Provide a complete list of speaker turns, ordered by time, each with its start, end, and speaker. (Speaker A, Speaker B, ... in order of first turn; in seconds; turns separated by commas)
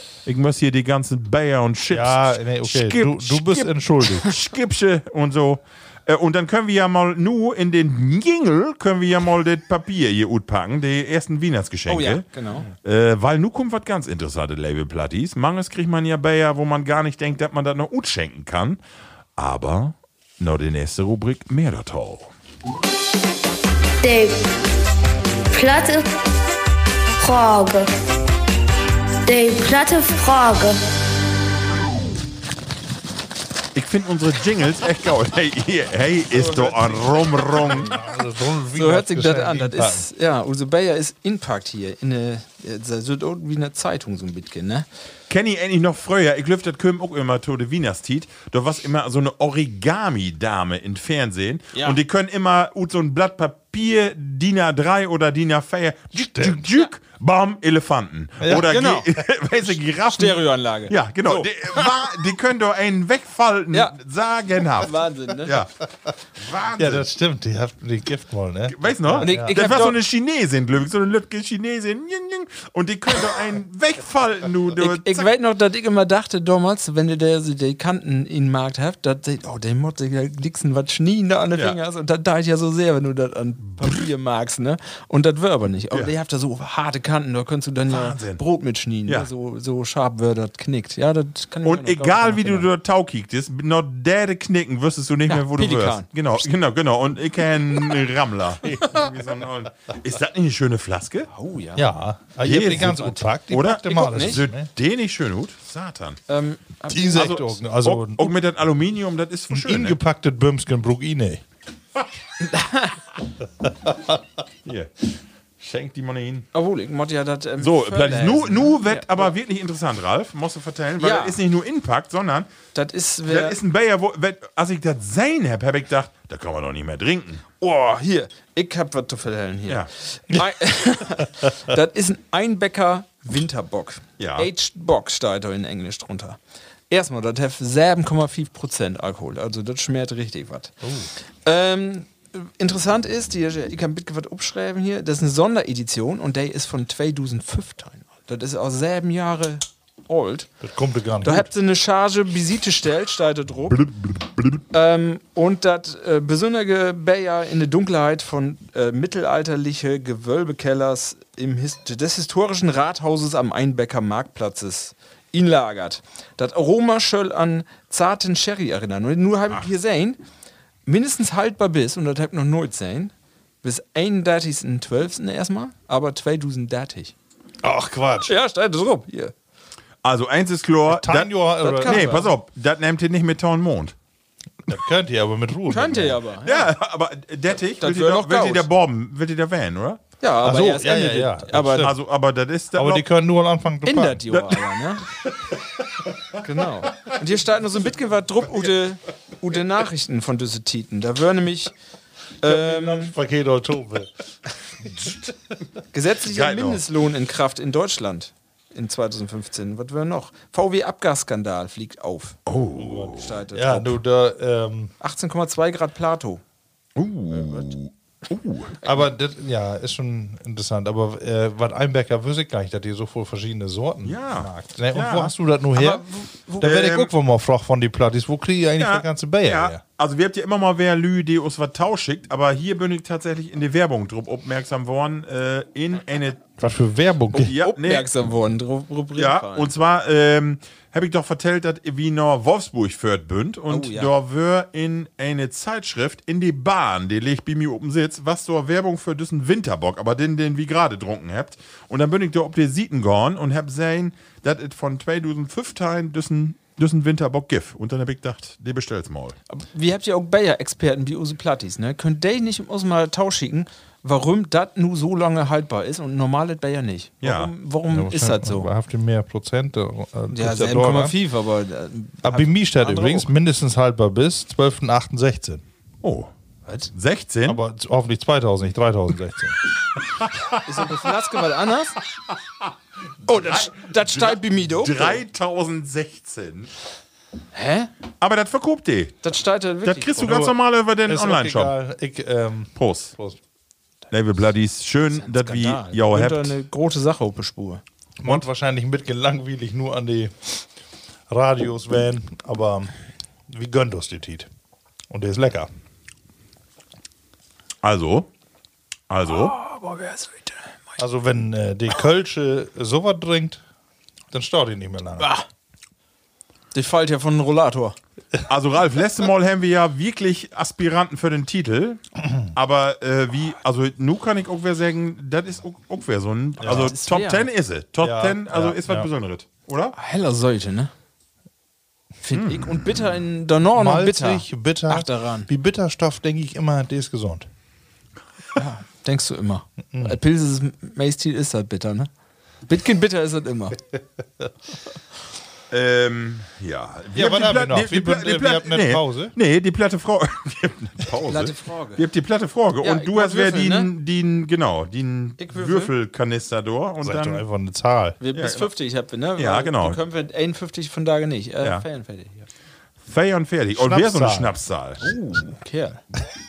Speaker A: 0.3-18.8, Speaker B: 1.9-4.3, Speaker C: 11.9-12.7, Speaker A: 19.4-22.3, Speaker D: 24.0-24.4, Speaker D: 25.5-26.1, Speaker D: 27.2-27.9, Speaker D: 29.3-30.8, Speaker A: 33.8-37.9, Speaker C: 36.3-37.8, Speaker B: 37.5-40.1, Speaker C: 38.7-44.9, Speaker A: 45.3-65.7, Speaker B: 56.4-56.6, Speaker B: 58.4-58.7, Speaker C: 58.6-59.1, Speaker C: 60.1-62.0, Speaker C: 64.8-65.6, Speaker A: 66.4-67.1, Speaker B: 66.8-69.7, Speaker A: 68.7-75.3, Speaker C: 69.2-70.0, Speaker C: 74.8-92.7, Speaker A: 87.9-88.4, Speaker A: 91.6-101.3, Speaker C: 95.3-96.1, Speaker C: 101.3-101.9, Speaker B: 101.8-104.7, Speaker A: 102.4-106.2, Speaker C: 103.9-104.4, Speaker C: 106.3-107.5, Speaker B: 106.9-108.3, Speaker A: 107.2-110.0, Speaker B: 109.5-111.4, Speaker C: 112.4-113.0, Speaker A: 114.7-116.5, Speaker C: 116.5-119.3, Speaker A: 117.6-122.5, Speaker C: 121.0-121.4, Speaker C: 122.8-123.6, Speaker A: 123.3-127.4, Speaker C: 127.6-136.4, Speaker A: 134.2-134.5, Speaker C: 136.9-140.8, Speaker B: 140.8-141.1, Speaker C: 141.4-150.5, Speaker B: 150.6-151.5, Speaker C: 151.2-153.9, Speaker A: 153.7-154.6, Speaker C: 154.7-170.2, Speaker C: 170.9-173.1, Speaker C: 173.6-177.1, Speaker B: 177.6-178.3, Speaker C: 178.3-179.3, Speaker A: 180.0-183.9, Speaker B: 180.9-182.1, Speaker C: 181.6-182.3, Speaker B: 184.7-186.2, Speaker C: 185.7-186.7, Speaker A: 186.4-190.0, Speaker C: 187.8-188.7, Speaker C: 190.2-191.9, Speaker B: 190.4-192.0, Speaker A: 191.6-193.1, Speaker B: 192.8-194.3, Speaker C: 193.8-195.1, Speaker A: 194.3-194.6, Speaker C: 196.4-201.7, Speaker C: 202.4-203.1, Speaker B: 202.4-204.1, Speaker B: 204.8-205.2, Speaker C: 205.9-212.4, Speaker A: 206.3-206.8, Speaker A: 212.5-213.2, Speaker B: 212.8-214.9, Speaker C: 213.1-214.0, Speaker C: 215.0-216.4, Speaker A: 217.0-218.8, Speaker C: 217.3-217.7, Speaker B: 218.8-226.1, Speaker A: 224.1-225.3, Speaker C: 225.8-226.8, Speaker B: 226.6-229.8, Speaker A: 226.6-227.1, Speaker A: 228.8-236.5, Speaker B: 236.6-237.6, Speaker A: 237.3-238.1, Speaker C: 237.5-239.7, Speaker A: 239.2-259.4, Speaker C: 243.7-244.1, Speaker C: 259.5-268.7, Speaker A: 267.2-267.5, Speaker B: 267.9-271.2, Speaker C: 270.3-273.3, Speaker B: 272.2-275.6, Speaker A: 276.0-276.3, Speaker A: 276.9-277.6, Speaker B: 277.5-279.6, Speaker C: 280.6-282.0, Speaker C: 283.3-285.2, Speaker A: 283.3-286.7, Speaker C: 287.5-287.9, Speaker A: 288.2-289.2, Speaker C: 289.2-290.4, Speaker A: 289.8-291.7, Speaker B: 290.2-293.4, Speaker A: 292.8-293.1, Speaker A: 294.1-296.5, Speaker C: 295.1-297.8, Speaker B: 298.2-300.6, Speaker B: 301.3-302.9, Speaker B: 303.5-304.5, Speaker B: 305.1-305.7, Speaker A: 307.8-308.3, Speaker A: 309.1-309.6, Speaker C: 309.3-310.7, Speaker B: 311.0-313.6, Speaker B: 314.3-315.3, Speaker C: 315.2-315.4, Speaker C: 316.7-318.0, Speaker A: 318.5-329.9, Speaker B: 326.6-326.9, Speaker C: 326.6-327.5, Speaker B: 328.0-329.1, Speaker C: 329.9-330.9, Speaker C: 332.2-335.5, Speaker A: 332.3-333.1, Speaker B: 333.8-337.5, Speaker C: 338.6-342.1, Speaker B: 339.9-340.2, Speaker C: 342.7-343.8, Speaker A: 345.7-357.4, Speaker B: 347.1-349.3, Speaker C: 351.2-352.0, Speaker C: 352.8-353.9, Speaker C: 355.4-355.9, Speaker B: 357.0-358.2, Speaker C: 358.2-362.5, Speaker A: 358.3-358.7, Speaker A: 359.4-360.0, Speaker A: 363.1-365.2, Speaker B: 363.8-364.6, Speaker C: 365.0-366.0